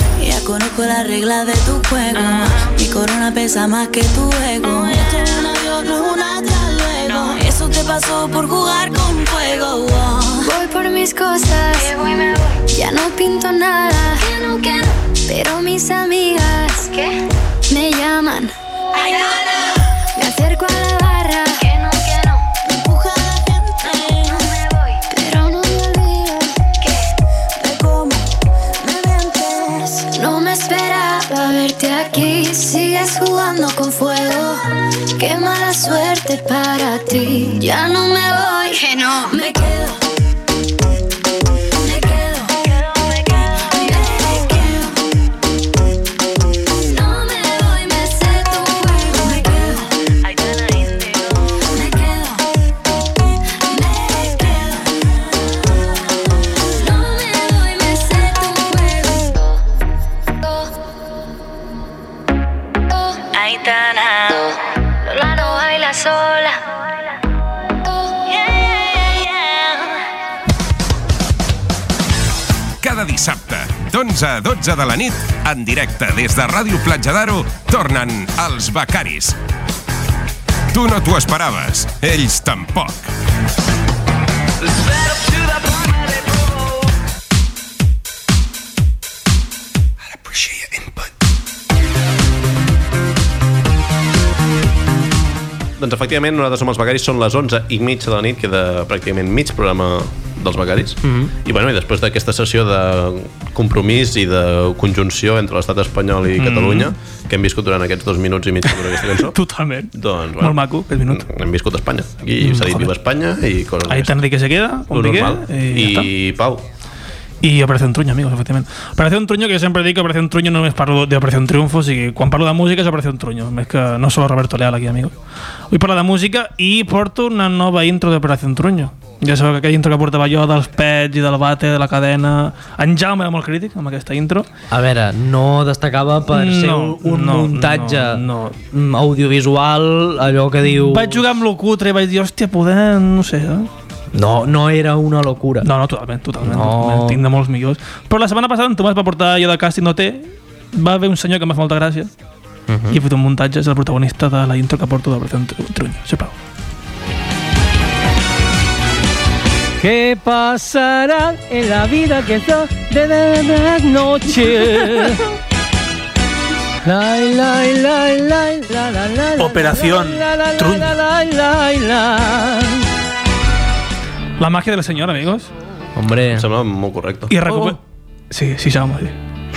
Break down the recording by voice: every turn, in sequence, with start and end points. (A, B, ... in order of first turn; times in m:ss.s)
0:00.2-0:10.5 A
0:10.4-0:18.5 B
0:19.0-0:19.8 A
0:20.2-0:22.5 B
0:22.6-0:24.5 A
0:24.4-0:26.9 B
0:27.6-0:28.3 A
0:28.8-0:30.0 A
0:30.1-0:34.6 B
0:35.2-0:40.0 B
0:38.9-0:39.3 A
0:41.8-0:42.6 B
0:42.5-0:44.8 A
0:43.8-0:44.7 B
0:46.8-0:49.8 B
0:49.2-0:51.7 A
0:51.7-0:52.4 B
0:53.7-0:54.6 B
0:56.7-0:59.4 B
1:03.3-1:04.5 A
1:05.0-1:06.8 B
1:08.3-1:09.8 A
1:12.8-1:19.4 C
1:20.7-1:23.1 C
1:35.8-1:49.4 D
1:41.0-1:41.3 E
1:46.4-1:46.9 F
1:48.7-1:51.3 F
1:49.9-1:54.2 D
1:52.4-1:52.9 F
1:53.9-1:56.1 F
1:54.9-1:56.6 D
1:57.4-2:05.1 F
2:05.7-2:14.5 F
2:14.7-2:21.2 E
2:16.3-2:18.6 F
2:20.7-2:23.7 F
2:24.1-2:25.7 E
2:25.6-2:32.1 F
2:26.4-2:27.2 E
2:32.7-2:33.0 E
2:32.9-2:36.4 F
2:39.8-2:45.2 E
2:46.8-2:52.8 E
2:49.4-2:50.9 F
2:54.4-2:55.5 F
2:56.0-2:56.5 E
2:56.4-2:57.4 D
2:57.3-2:57.8 F
2:57.5-2:57.8 E
2:58.3-2:59.2 F